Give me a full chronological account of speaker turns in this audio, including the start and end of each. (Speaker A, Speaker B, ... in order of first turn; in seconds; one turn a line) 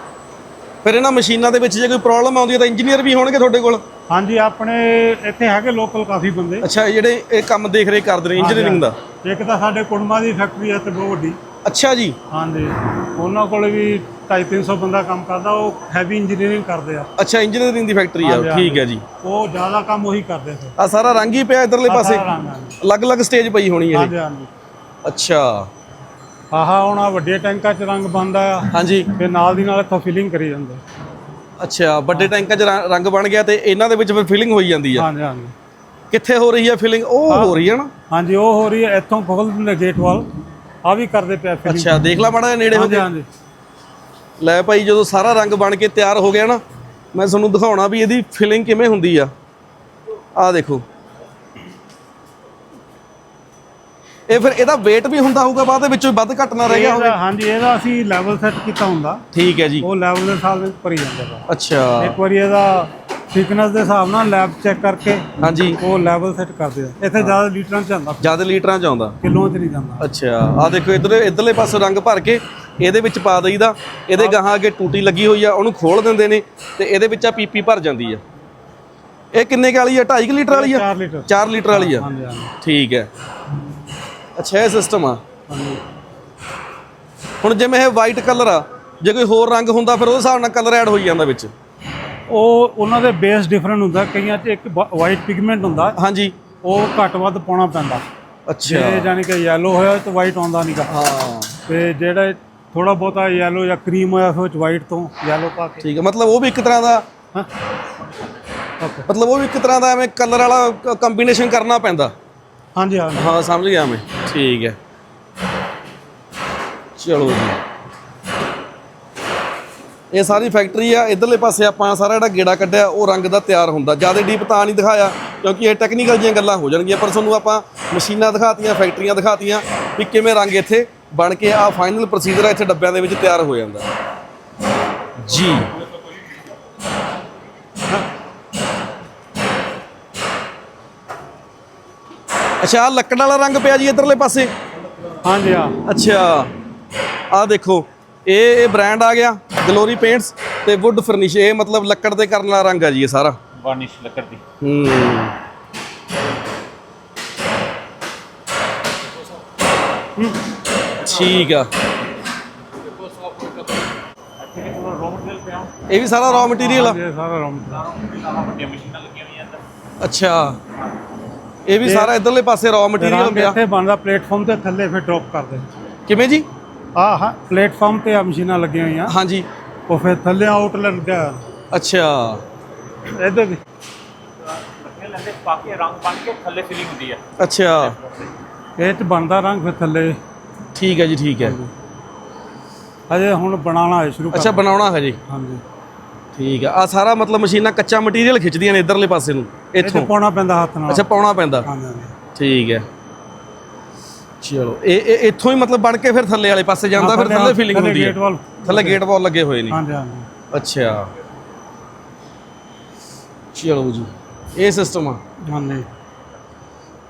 Speaker A: 0.8-3.8
Speaker B: 4.1-6.7
Speaker A: 6.6-8.9
Speaker B: 8.3-11.4
Speaker A: 11.6-12.2
Speaker B: 12.3-17.1
Speaker A: 17.2-19.0
Speaker B: 18.2-20.8
Speaker A: 20.8-22.2
Speaker B: 21.9-22.8
Speaker A: 22.8-24.1
Speaker B: 23.9-24.5
Speaker A: 25.0-25.7
Speaker B: 26.5-30.8
Speaker A: 28.7-29.1
Speaker A: 31.6-35.1
Speaker B: 34.9-35.5
Speaker A: 36.1-37.9
Speaker B: 37.3-37.6
Speaker B: 38.1-40.3
Speaker B: 40.8-42.0
Speaker A: 41.6-43.0
Speaker B: 42.7-43.3
Speaker A: 44.4-46.6
Speaker A: 47.1-49.3
Speaker A: 50.4-50.8
Speaker A: 54.3-57.1
Speaker B: 56.6-59.2
Speaker A: 59.3-59.9
Speaker B: 59.8-61.5
Speaker A: 61.5-62.2
Speaker B: 62.0-68.2
Speaker A: 65.4-65.8
Speaker A: 68.2-69.2
Speaker B: 69.2-70.1
Speaker A: 70.0-78.2
Speaker A: 79.3-82.1
Speaker B: 80.5-82.5
Speaker A: 82.6-83.1
Speaker A: 84.3-85.2
Speaker B: 85.5-85.8
Speaker A: 87.4-91.5
Speaker B: 92.3-96.0
Speaker A: 96.0-96.3
Speaker B: 96.6-98.0
Speaker A: 98.5-99.1
Speaker B: 98.7-100.9
Speaker A: 100.9-101.5
Speaker B: 101.7-105.8
Speaker A: 105.8-107.1
Speaker B: 108.8-109.1
Speaker A: 109.1-112.1
Speaker B: 112.8-113.3
Speaker A: 113.2-114.8
Speaker A: 117.0-117.6
Speaker A: 120.1-133.9
Speaker A: 135.2-135.7
Speaker A: 142.6-144.5
Speaker B: 145.2-145.8
Speaker A: 145.8-146.5
Speaker A: 147.3-153.4
Speaker C: 153.5-154.4
Speaker A: 154.6-155.3
Speaker A: 161.0-161.7
Speaker C: 164.4-165.7
Speaker A: 165.9-167.0
Speaker B: 166.5-167.8
Speaker C: 167.7-169.6
Speaker A: 170.0-170.6
Speaker A: 171.7-173.6
Speaker B: 171.8-172.1
Speaker B: 173.0-175.7
Speaker A: 176.1-176.4
Speaker B: 176.9-179.1
Speaker A: 179.1-179.4
Speaker B: 179.9-181.4
Speaker A: 181.7-182.4
Speaker B: 183.1-183.6
Speaker C: 184.6-187.2
Speaker A: 187.4-187.9
Speaker C: 187.8-188.3
Speaker B: 188.8-190.2
Speaker A: 190.8-191.6
Speaker B: 191.4-191.7
Speaker B: 193.1-194.6
Speaker A: 194.3-195.2
Speaker B: 195.3-195.6
Speaker A: 196.3-200.1
Speaker B: 199.8-201.1
Speaker A: 200.9-201.7
Speaker B: 201.6-202.1
Speaker A: 202.3-202.9
Speaker A: 204.4-209.8
Speaker B: 206.9-209.0
Speaker B: 209.7-210.3
Speaker A: 210.5-211.1
Speaker A: 213.5-215.2
Speaker B: 215.4-215.9